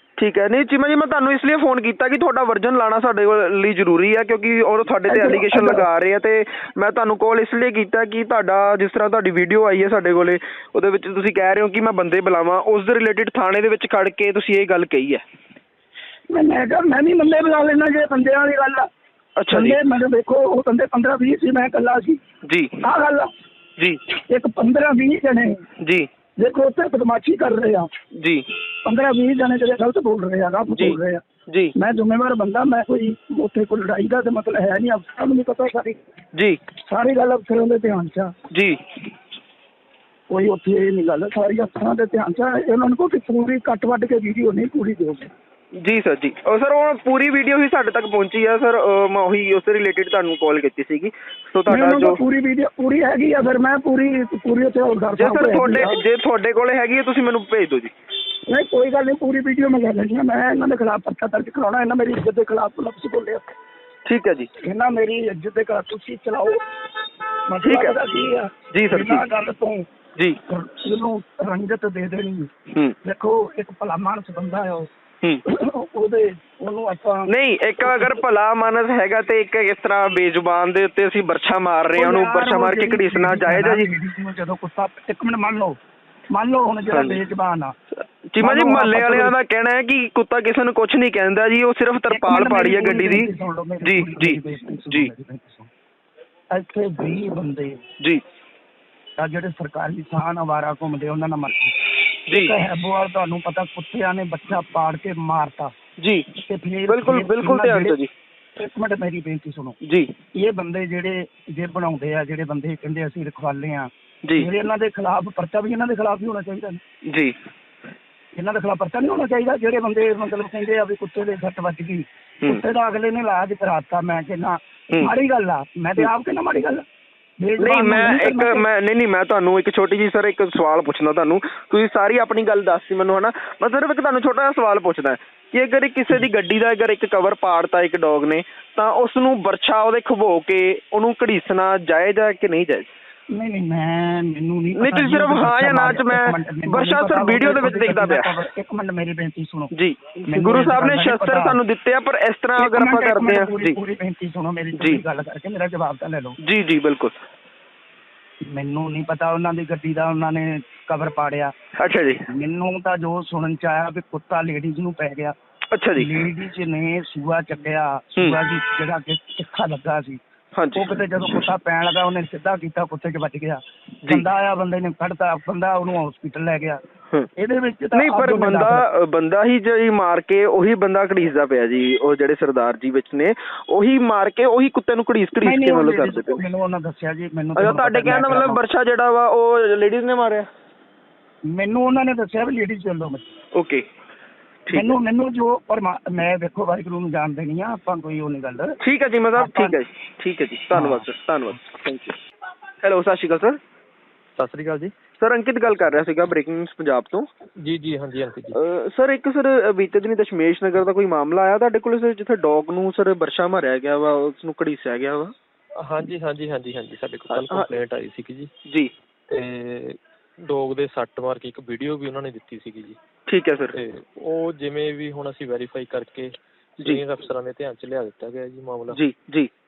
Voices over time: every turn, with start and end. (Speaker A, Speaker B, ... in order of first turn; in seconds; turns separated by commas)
Speaker A: 0.2-15.2, Speaker B: 5.0-5.8, Speaker B: 16.3-18.9, Speaker A: 19.4-19.8, Speaker B: 19.5-22.2, Speaker A: 22.5-22.8, Speaker B: 22.8-23.3, Speaker B: 24.1-25.6, Speaker B: 26.4-27.9, Speaker B: 28.9-31.2, Speaker B: 31.8-36.0, Speaker B: 36.8-38.4, Speaker A: 38.5-38.8, Speaker B: 40.3-45.3, Speaker A: 45.8-52.2, Speaker B: 51.7-56.0, Speaker A: 55.1-57.9, Speaker B: 58.5-63.5, Speaker A: 64.1-64.5, Speaker B: 64.6-66.6, Speaker B: 67.5-69.9, Speaker A: 67.6-68.0, Speaker A: 68.7-69.2, Speaker B: 70.5-72.5, Speaker B: 73.0-74.9, Speaker B: 75.5-77.3, Speaker A: 77.3-83.9, Speaker B: 77.8-78.2, Speaker B: 81.9-85.8, Speaker B: 86.3-87.7, Speaker A: 86.9-87.2, Speaker A: 88.3-93.3, Speaker B: 88.4-89.3, Speaker B: 92.1-95.7, Speaker A: 93.8-94.4, Speaker B: 96.5-97.8, Speaker B: 99.2-101.8, Speaker B: 102.3-105.7, Speaker B: 106.5-108.0, Speaker A: 106.9-107.6, Speaker B: 108.6-109.8, Speaker B: 110.3-116.8, Speaker B: 118.3-126.8, Speaker B: 127.4-128.6, Speaker A: 127.6-142.9, Speaker B: 143.3-149.7, Speaker A: 144.8-148.3, Speaker A: 149.7-153.8, Speaker B: 150.3-151.6, Speaker B: 152.6-156.3, Speaker A: 154.8-155.0, Speaker A: 156.4-157.1, Speaker B: 158.4-161.6, Speaker A: 161.8-162.2, Speaker B: 162.3-165.3, Speaker A: 165.8-166.1, Speaker B: 166.0-170.2, Speaker A: 170.6-170.9, Speaker B: 170.8-176.8, Speaker B: 177.4-178.8, Speaker A: 177.9-186.4, Speaker B: 185.4-188.7, Speaker A: 187.6-190.5, Speaker B: 191.5-193.3, Speaker A: 193.6-193.8, Speaker A: 194.7-194.9, Speaker B: 194.7-198.8, Speaker A: 198.8-202.2, Speaker B: 199.3-199.8, Speaker B: 200.7-201.1, Speaker A: 202.8-203.6, Speaker C: 204.4-205.0, Speaker A: 205.2-207.3, Speaker C: 205.7-206.0, Speaker C: 207.6-208.6, Speaker A: 208.6-215.3, Speaker C: 215.8-218.5, Speaker A: 217.3-217.7, Speaker C: 219.3-223.0, Speaker A: 223.3-223.8, Speaker C: 223.7-229.1, Speaker A: 228.9-229.5